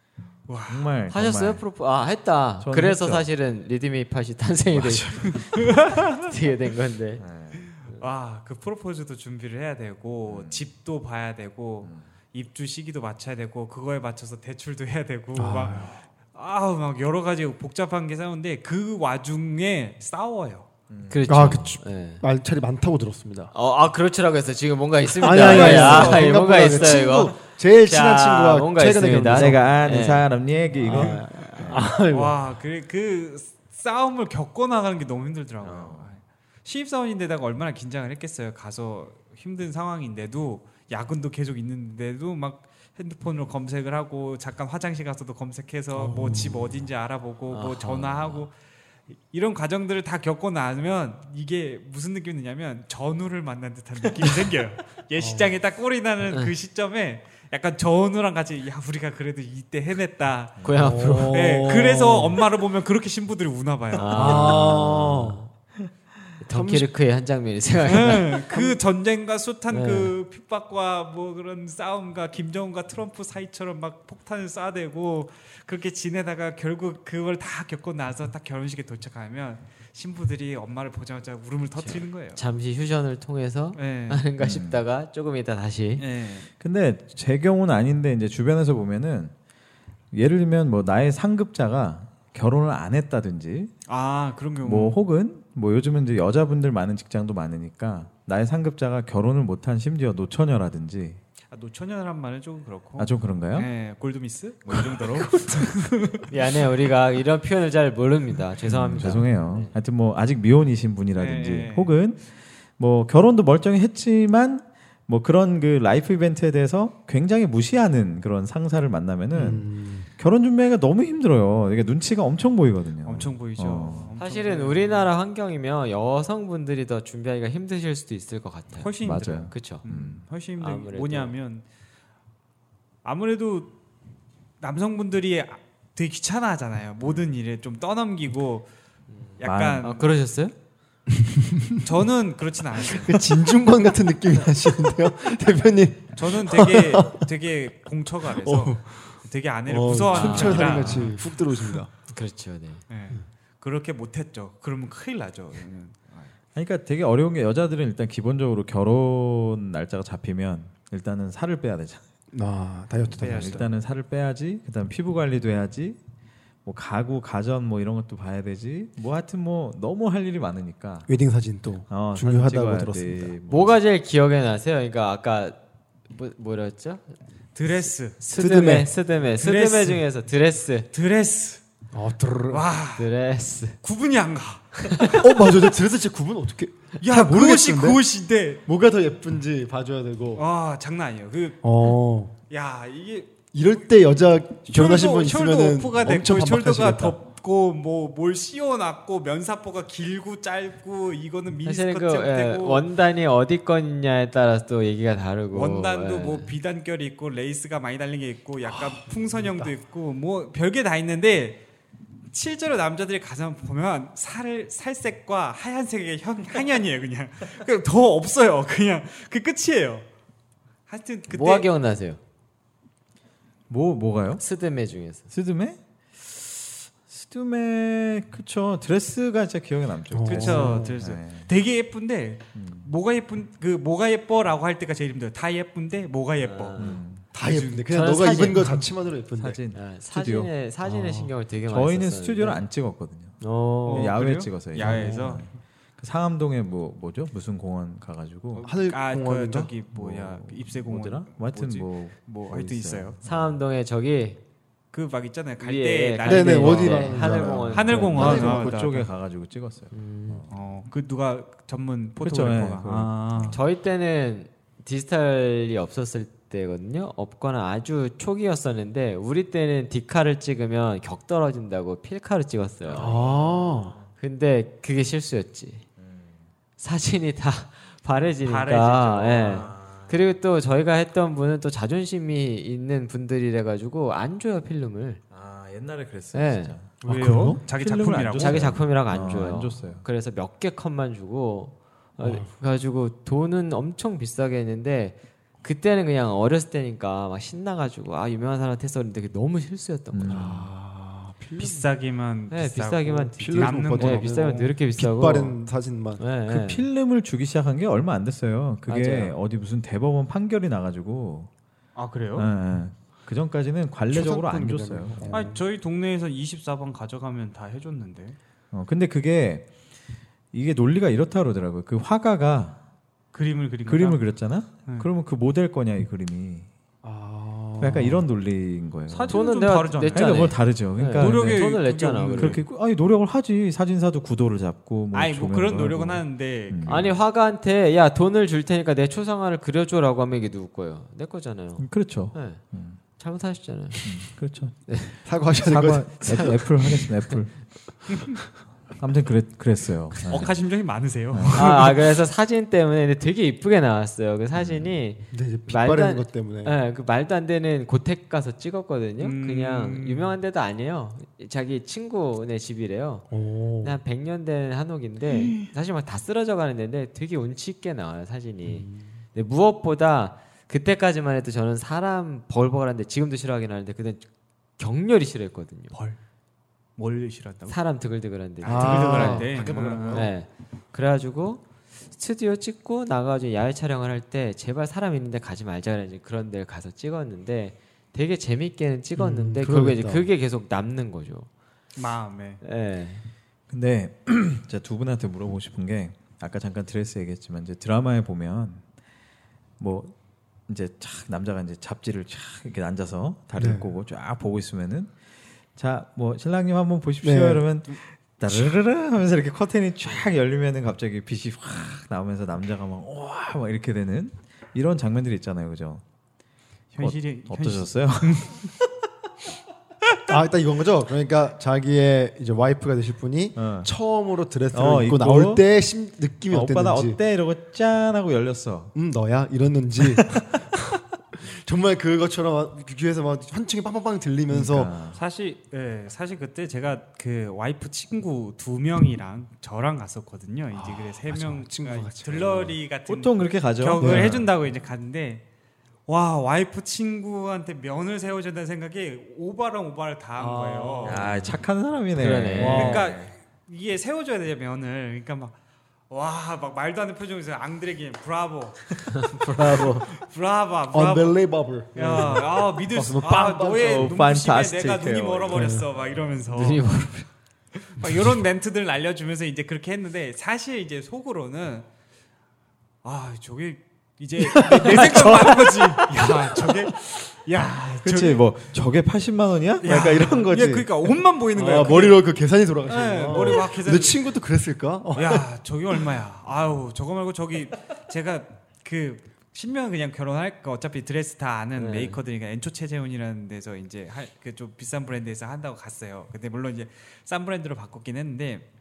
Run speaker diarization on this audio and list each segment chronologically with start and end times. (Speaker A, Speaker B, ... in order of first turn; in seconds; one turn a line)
Speaker A: 0.5-0.9
Speaker B: 0.7-1.6
Speaker C: 1.1-7.2
Speaker B: 2.6-3.3
Speaker B: 4.7-5.4
Speaker A: 5.2-6.2
Speaker B: 7.2-7.7
Speaker A: 7.6-20.7
Speaker B: 10.3-10.7
Speaker D: 15.3-15.9
Speaker B: 20.9-21.6
Speaker C: 21.1-22.2
Speaker D: 21.3-23.5
Speaker C: 23.5-30.3
Speaker D: 25.2-29.7
Speaker A: 25.4-26.3
Speaker B: 25.4-26.3
Speaker B: 29.1-31.9
Speaker D: 30.7-32.4
Speaker A: 30.9-31.2
Speaker A: 32.1-48.5
Speaker B: 35.6-36.1
Speaker D: 45.9-46.8
Speaker C: 47.5-48.5
Speaker A: 49.3-64.6
Speaker D: 55.2-55.5
Speaker B: 60.6-60.8
Speaker C: 60.6-61.6
Speaker D: 60.8-62.4
Speaker C: 64.0-65.4
Speaker D: 64.1-65.5
Speaker B: 64.4-64.8
Speaker C: 66.4-68.5
Speaker D: 66.5-66.9
Speaker A: 67.8-82.4
Speaker C: 69.7-70.1
Speaker C: 81.8-86.0
Speaker A: 83.8-84.3
Speaker B: 84.4-84.8
Speaker A: 86.0-86.5
Speaker B: 86.6-89.3
Speaker B: 90.1-93.7
Speaker A: 93.9-95.0
Speaker B: 94.6-101.2
Speaker A: 101.5-106.3
Speaker B: 103.0-103.7
Speaker C: 106.3-109.7
Speaker B: 108.6-112.2
Speaker A: 111.2-111.9
Speaker B: 112.8-119.7
Speaker D: 119.3-120.1
Speaker B: 120.2-124.1
Speaker A: 123.0-125.1
Speaker C: 124.2-128.9
Speaker A: 128.8-131.6
Speaker B: 129.0-130.2
Speaker C: 129.5-129.8
Speaker C: 130.6-131.3
Speaker A: 133.0-133.7
Speaker A: 134.6-138.7
Speaker A: 139.4-140.1
Speaker B: 139.4-139.9
Speaker C: 139.8-140.5
Speaker D: 141.2-141.7
Speaker A: 141.8-143.4
Speaker D: 142.9-147.2
Speaker A: 146.1-151.8
Speaker D: 148.3-149.0
Speaker D: 149.7-151.9
Speaker C: 150.1-151.1
Speaker B: 150.7-151.0
Speaker C: 152.1-152.8
Speaker A: 152.9-156.3
Speaker B: 156.5-162.0
Speaker D: 162.3-163.7
Speaker A: 163.2-163.7
Speaker B: 163.2-166.0
Speaker B: 166.6-171.1
Speaker D: 171.1-173.3
Speaker B: 171.9-173.8
Speaker C: 173.5-175.6
Speaker C: 176.1-177.1
Speaker A: 177.5-178.2
Speaker C: 178.1-180.9
Speaker D: 178.3-178.9
Speaker A: 179.4-180.0
Speaker A: 180.9-181.6
Speaker D: 181.9-182.7
Speaker A: 182.5-183.1
Speaker C: 183.0-183.8
Speaker A: 183.8-185.2
Speaker C: 184.8-185.2
Speaker D: 185.1-188.0
Speaker A: 187.0-188.6
Speaker D: 188.7-190.4
Speaker A: 190.3-192.0
Speaker D: 191.6-192.3
Speaker A: 192.5-193.4
Speaker D: 193.5-197.2
Speaker A: 194.7-202.8
Speaker C: 201.6-206.5
Speaker A: 205.5-211.6
Speaker D: 208.7-209.7
Speaker A: 212.3-220.0
Speaker A: 220.9-221.7
Speaker C: 221.3-222.2
Speaker B: 223.7-224.4
Speaker C: 224.4-225.3
Speaker B: 225.3-231.5
Speaker D: 230.1-230.9
Speaker A: 230.2-237.9
Speaker B: 232.5-232.9
Speaker C: 236.4-237.0
Speaker B: 236.8-237.2
Speaker D: 237.3-239.6
Speaker C: 237.9-238.8
Speaker B: 239.4-240.5
Speaker C: 239.7-242.6
Speaker D: 240.8-241.3
Speaker B: 241.7-243.4
Speaker C: 243.4-244.1
Speaker A: 243.8-245.5
Speaker B: 243.9-248.7
Speaker D: 244.8-245.4
Speaker A: 248.5-253.2
Speaker D: 248.6-249.7
Speaker B: 249.9-253.6
Speaker C: 253.2-254.4
Speaker A: 254.9-259.1
Speaker C: 255.6-258.6
Speaker D: 256.2-258.6
Speaker B: 257.7-260.5
Speaker C: 259.9-260.4
Speaker A: 260.5-263.6
Speaker B: 262.2-263.6
Speaker C: 263.5-273.2
Speaker B: 272.8-274.1
Speaker D: 272.9-274.0
Speaker C: 274.2-275.8
Speaker B: 276.0-276.4
Speaker C: 276.8-285.2
Speaker A: 278.4-279.6
Speaker B: 279.4-280.2
Speaker B: 285.3-290.0
Speaker C: 286.3-286.7
Speaker D: 287.0-287.6
Speaker A: 287.0-288.8
Speaker C: 288.4-300.7
Speaker D: 292.2-292.5
Speaker B: 300.1-300.7
Speaker D: 300.3-301.9
Speaker A: 301.6-304.7
Speaker C: 302.5-305.6
Speaker D: 303.4-306.2
Speaker C: 306.2-306.8
Speaker B: 306.5-311.5
Speaker C: 308.9-309.3
Speaker A: 311.9-312.5
Speaker B: 312.4-315.4
Speaker D: 314.1-315.6
Speaker A: 315.3-318.4
Speaker B: 318.7-319.7
Speaker B: 320.5-322.8
Speaker A: 323.3-324.2
Speaker B: 323.9-326.7
Speaker D: 327.0-328.2
Speaker B: 327.8-329.4
Speaker A: 329.1-330.5
Speaker C: 329.3-332.6
Speaker B: 330.0-331.8
Speaker A: 331.1-332.6
Speaker B: 332.3-337.2
Speaker A: 335.1-336.9
Speaker C: 336.8-342.6
Speaker B: 341.8-343.0
Speaker C: 343.2-344.1
Speaker B: 344.0-344.8
Speaker C: 344.9-345.2
Speaker D: 345.2-346.6
Speaker B: 345.6-347.6
Speaker C: 346.3-347.4
Speaker B: 348.9-350.5
Speaker A: 350.2-352.1
Speaker B: 351.3-351.9
Speaker C: 351.5-363.3
Speaker B: 354.5-355.0
Speaker D: 355.3-356.8
Speaker A: 359.2-360.4
Speaker D: 363.3-364.0
Speaker C: 363.8-374.2
Speaker D: 368.7-369.1
Speaker C: 374.8-375.9
Speaker A: 375.9-376.2
Speaker A: 377.0-377.8
Speaker C: 377.7-379.5
Speaker A: 378.6-380.3
Speaker D: 378.6-380.3
Speaker C: 380.1-391.5
Speaker D: 389.1-390.3
Speaker A: 391.9-392.6
Speaker C: 392.6-393.2
Speaker B: 393.7-398.8
Speaker B: 399.8-400.1
Speaker B: 400.7-405.1
Speaker D: 403.6-403.9
Speaker B: 405.7-416.0
Speaker D: 407.2-407.6
Speaker A: 416.9-418.7
Speaker B: 417.0-418.7
Speaker D: 420.3-427.2
Speaker B: 423.6-423.9
Speaker B: 424.7-425.6
Speaker B: 426.5-428.9
Speaker D: 428.9-434.9
Speaker B: 434.5-435.2
Speaker A: 435.1-445.4
Speaker D: 440.7-442.8
Speaker B: 443.1-444.6
Speaker D: 444.0-444.4
Speaker A: 446.1-451.3
Speaker C: 450.4-451.2
Speaker B: 451.0-453.3
Speaker C: 452.1-453.0
Speaker D: 452.6-453.1
Speaker A: 452.6-455.5
Speaker A: 456.1-461.4
Speaker C: 459.1-460.1
Speaker D: 460.9-464.2
Speaker A: 461.9-466.8
Speaker B: 463.8-465.8
Speaker D: 465.5-465.9
Speaker C: 466.5-467.3
Speaker A: 467.9-471.9
Speaker A: 473.0-478.4
Speaker D: 474.4-476.9
Speaker B: 478.0-481.1
Speaker A: 479.8-482.2
Speaker D: 481.5-485.4
Speaker A: 482.9-484.2
Speaker A: 485.1-498.6
Speaker C: 491.8-492.2